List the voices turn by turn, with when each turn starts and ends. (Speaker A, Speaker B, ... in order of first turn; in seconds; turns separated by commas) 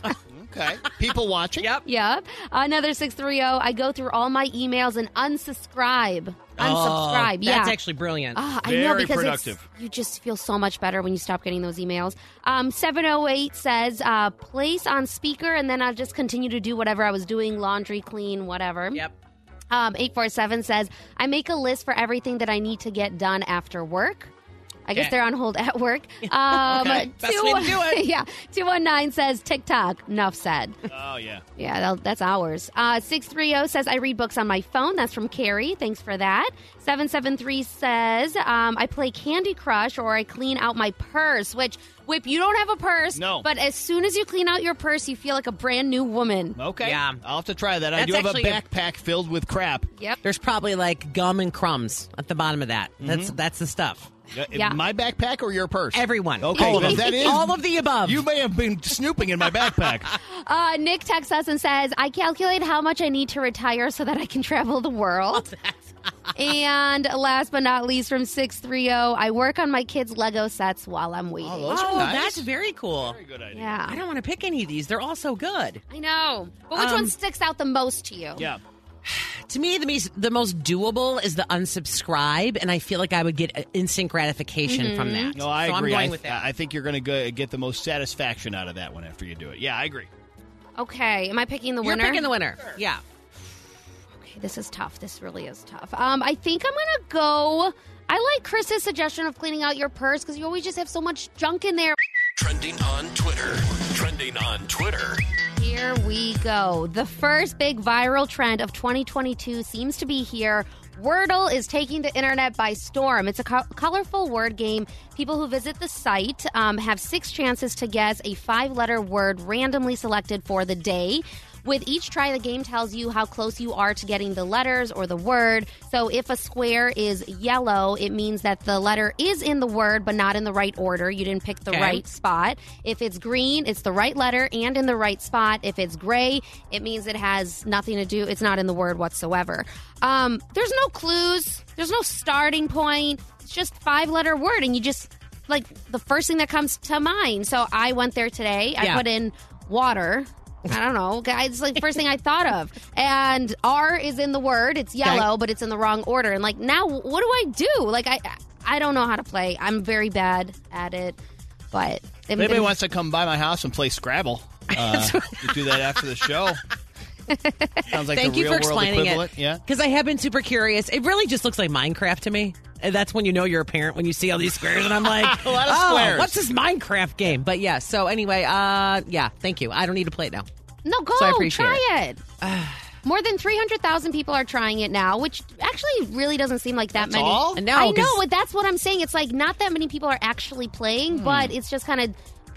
Speaker A: 0.3-1.7, Speaker B: 1.9-7.8, Speaker C: 6.6-8.4, Speaker B: 8.3-19.0, Speaker A: 8.6-9.6, Speaker B: 19.7-24.3, Speaker B: 24.9-30.8, Speaker C: 26.2-28.1, Speaker A: 30.9-31.4, Speaker B: 31.6-46.6, Speaker A: 43.1-43.5, Speaker A: 46.6-49.9, Speaker C: 46.8-47.2, Speaker C: 48.0-48.6, Speaker C: 50.2-54.1, Speaker A: 53.0-53.3, Speaker A: 54.3-60.2, Speaker B: 54.5-54.8, Speaker C: 55.9-58.2, Speaker B: 56.6-57.4, Speaker B: 60.2-65.5, Speaker C: 65.3-66.0, Speaker B: 66.4-71.8, Speaker A: 71.4-73.8, Speaker C: 71.7-73.2, Speaker B: 73.5-74.0, Speaker C: 73.9-75.8, Speaker B: 75.9-78.5, Speaker C: 76.7-77.1, Speaker C: 79.0-86.4, Speaker B: 84.7-85.4, Speaker A: 85.3-90.1, Speaker B: 90.8-92.3, Speaker C: 91.8-93.0, Speaker B: 94.2-102.0, Speaker D: 102.4-105.2, Speaker B: 105.6-161.2, Speaker C: 131.7-132.0, Speaker B: 161.7-162.7, Speaker A: 162.4-166.6, Speaker C: 164.7-166.0, Speaker B: 167.3-167.8, Speaker A: 167.9-169.6, Speaker C: 168.1-180.5, Speaker A: 174.9-176.4, Speaker B: 180.8-182.2, Speaker C: 181.2-181.8, Speaker C: 182.4-182.8, Speaker B: 183.0-192.2, Speaker A: 187.0-187.6, Speaker C: 187.6-188.2, Speaker A: 191.2-191.5